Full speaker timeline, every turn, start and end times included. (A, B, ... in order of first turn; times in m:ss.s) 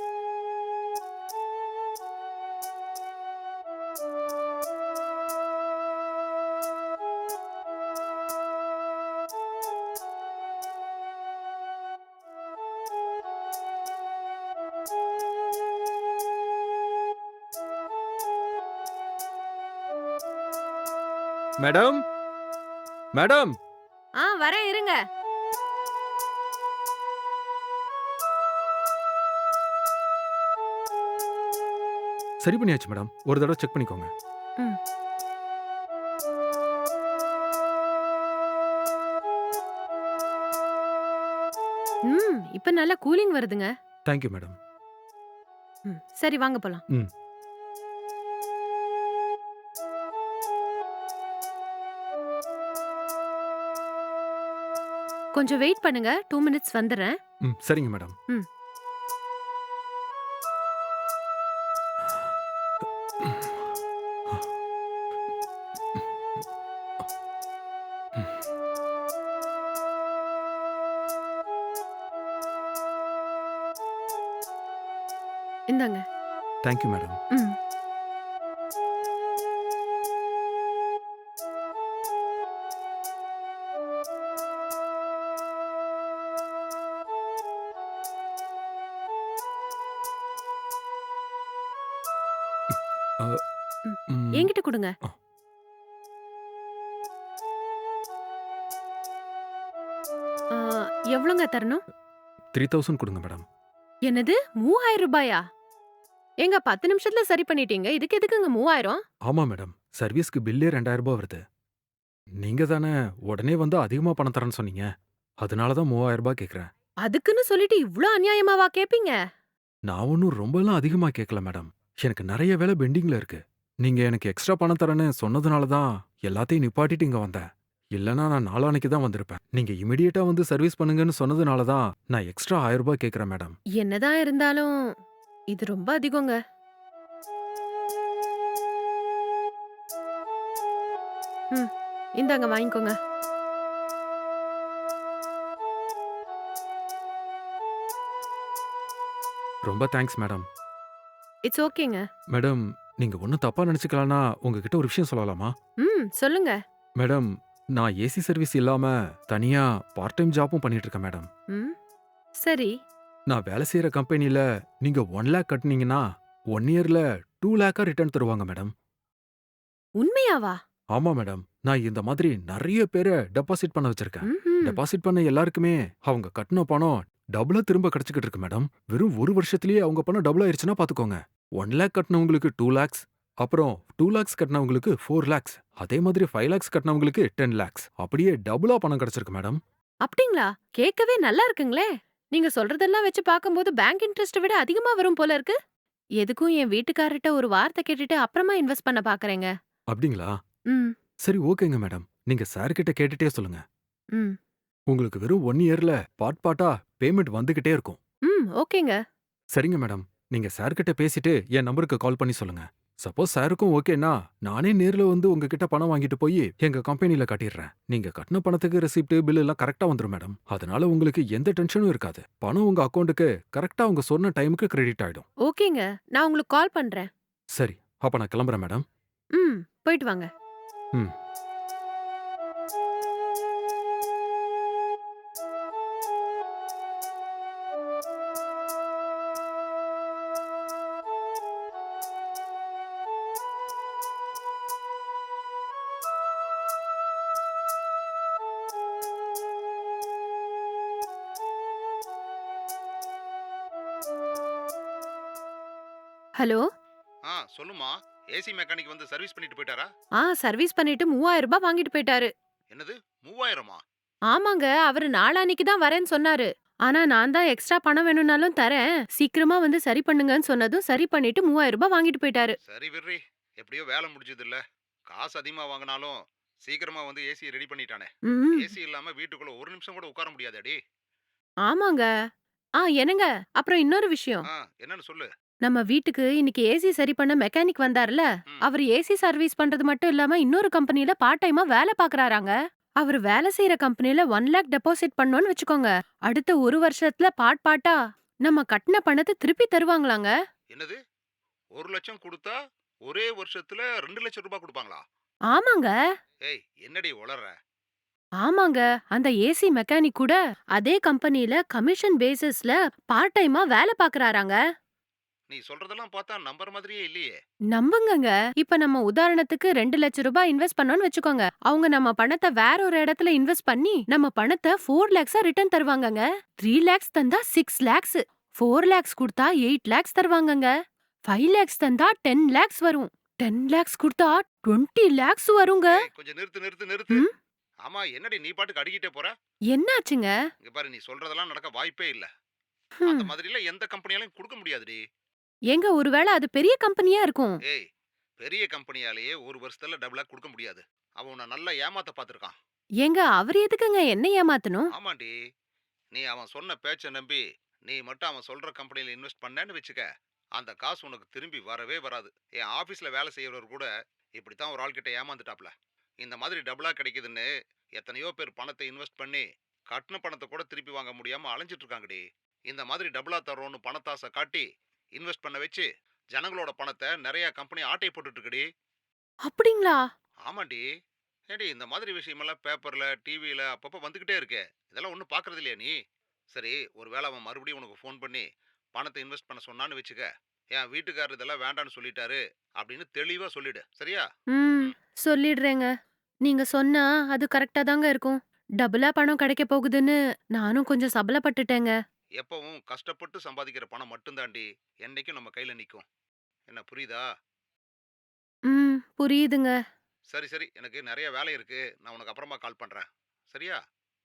0:21.6-0:22.0 A
0:23.1-0:23.5 A
0:24.2-0:25.0 B
0:32.4-0:34.1 A
0:42.1-0:43.7 B
0:44.1-0:44.6 A
0:45.8-0:46.8 B
0:55.4-0:57.1 B
0:57.4-0:58.1 A
1:03.2-1:03.6 A
1:15.7-1:16.0 B
1:16.6-1:17.2 A
1:32.7-1:33.4 A
1:33.8-1:34.9 B
1:34.1-1:34.5 A
1:40.5-1:41.8 B
1:42.5-1:43.4 A
1:44.1-1:45.4 B
1:46.4-1:49.0 B
1:49.3-1:51.4 A
1:52.4-1:54.9 A
1:55.4-1:56.7 A
1:57.0-1:59.2 B
1:59.9-2:13.6 A
2:13.8-2:14.7 B
2:15.5-2:16.4 B
2:21.5-2:22.9 B
2:29.6-2:30.5 A
2:31.5-2:32.0 B
2:32.3-2:35.5 A
2:35.8-2:36.6 B
2:37.0-2:41.3 A
2:42.4-2:42.7 B
2:43.3-2:48.7 A
2:50.0-2:50.6 B
2:50.9-3:09.6 A
2:54.2-2:54.8 B
3:10.0-3:15.6 B
3:16.2-3:19.5 B
3:19.9-3:20.4 A
3:20.7-3:20.9 B
3:21.2-3:23.6 A
3:24.9-3:28.0 A
3:28.3-3:29.0 B
3:29.5-3:45.2 A
3:45.4-3:47.1 B
3:47.5-3:48.8 A
3:49.4-3:50.3 B
4:16.4-4:16.6 B
4:17.3-4:19.9 C
4:20.2-4:22.3 B
4:22.7-4:23.8 C
4:24.3-4:32.6 B
4:32.7-4:40.8 C
4:38.3-4:38.7 B
4:41.6-4:42.1 B
4:42.8-4:44.5 B
4:44.5-4:45.3 C
4:45.6-5:00.3 B
5:01.8-5:05.0 C
5:05.5-5:05.9 B
5:06.5-5:07.5 C
5:08.4-5:14.6 B
5:15.5-5:17.3 C
5:17.7-5:30.7 B
5:31.3-5:36.0 B
5:35.8-5:37.2 C
5:37.8-5:39.3 C
5:39.7-5:40.3 B
5:40.6-5:42.3 C
5:43.0-5:43.3 B
5:43.1-5:45.0 C
5:45.7-5:47.6 B
5:48.4-5:52.5 C
5:53.0-5:54.9 B
5:55.0-5:55.3 C
5:56.1-6:00.0 C
6:00.6-6:14.6 C
6:15.2-6:18.6 C
6:19.4-6:20.0 B
6:20.5-6:20.8 C
6:21.5-6:25.9 C
6:26.5-6:34.2 C
6:34.5-6:35.9 B
6:36.4-6:41.9 B
6:42.4-6:46.0 C
6:46.7-6:47.2 C
6:48.7-6:49.7 B
6:50.3-6:53.8 C